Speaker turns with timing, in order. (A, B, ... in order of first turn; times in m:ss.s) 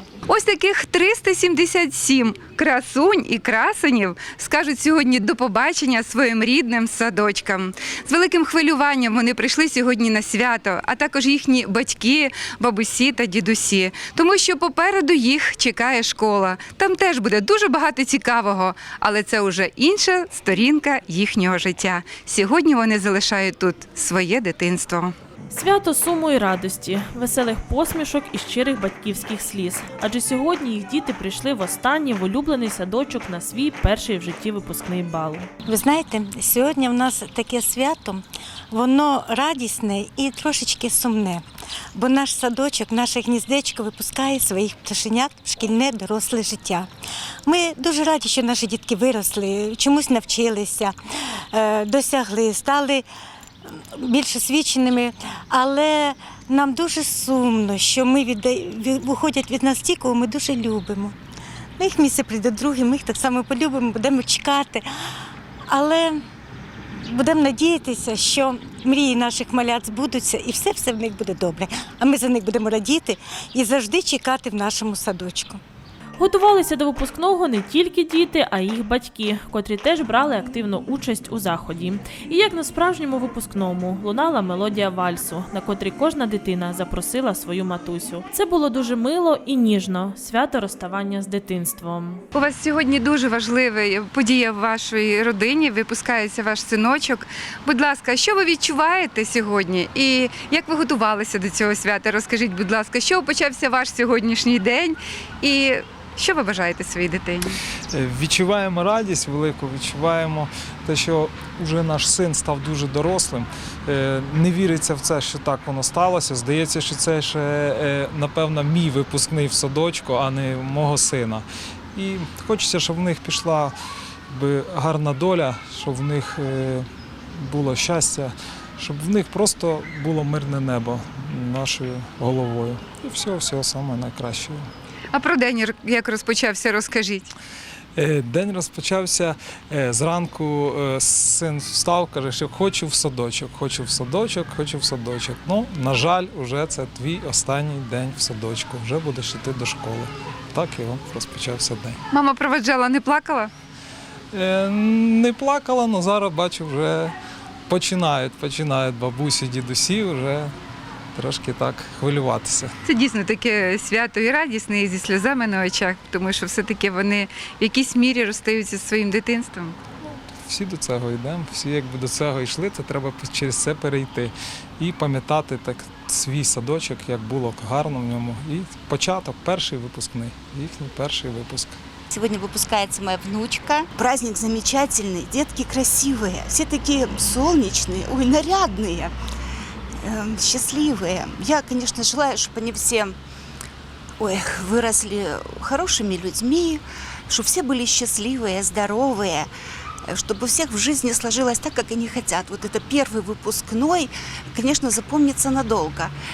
0:00.3-0:25.1 A
0:25.5-0:35.5 B
0:35.6-0:41.4 C
0:42.0-0:46.9 C
0:47.4-0:51.0 C
0:51.5-0:53.0 C
0:54.0-1:01.2 C
1:01.8-1:04.8 C
1:05.7-1:06.2 C
1:07.0-1:15.6 C
1:16.2-1:32.2 B
1:32.3-1:47.6 A
1:47.9-2:03.7 D
2:04.3-2:14.7 D
2:15.1-2:17.3 A
2:18.0-2:32.0 D
2:32.1-2:33.5 A
2:34.3-2:37.2 D
2:37.7-2:40.5 D
2:41.2-2:42.7 D
2:42.8-2:49.8 A
2:50.4-3:01.8 D
3:02.1-3:09.1 E
3:10.0-3:13.2 E
3:14.2-3:19.5 E
3:20.1-3:26.1 E